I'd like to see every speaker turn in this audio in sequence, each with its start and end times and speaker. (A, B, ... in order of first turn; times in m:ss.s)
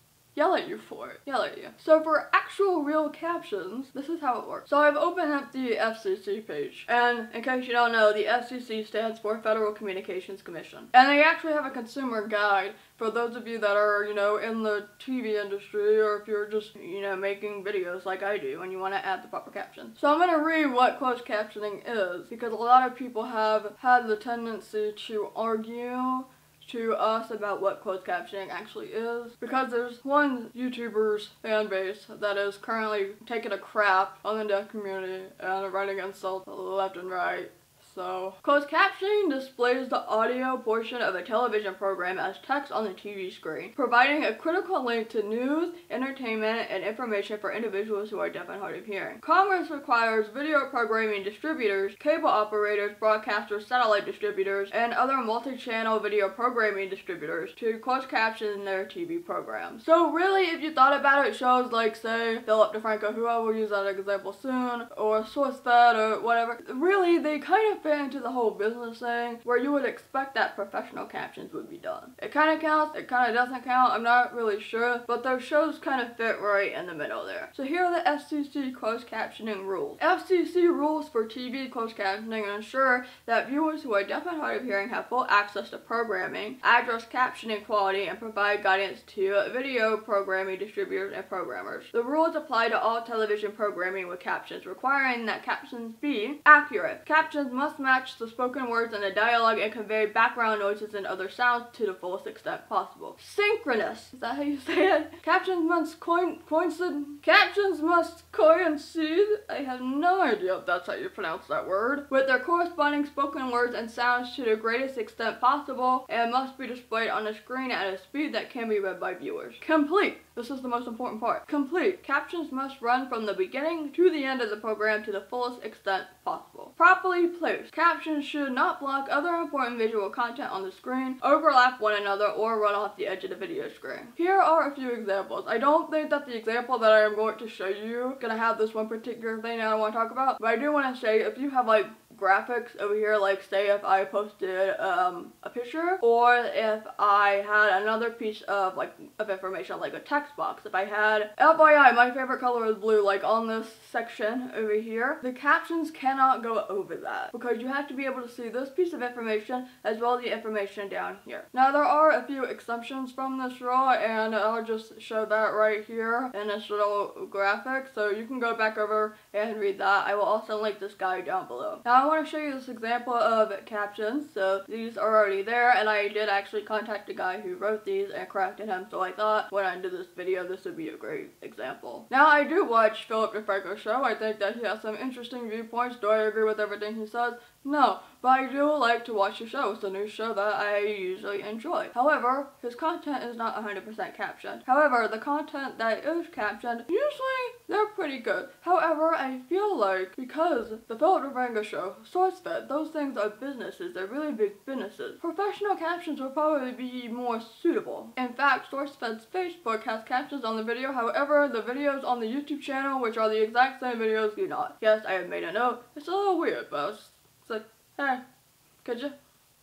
0:00.3-3:38.2 A
3:38.8-3:39.1 A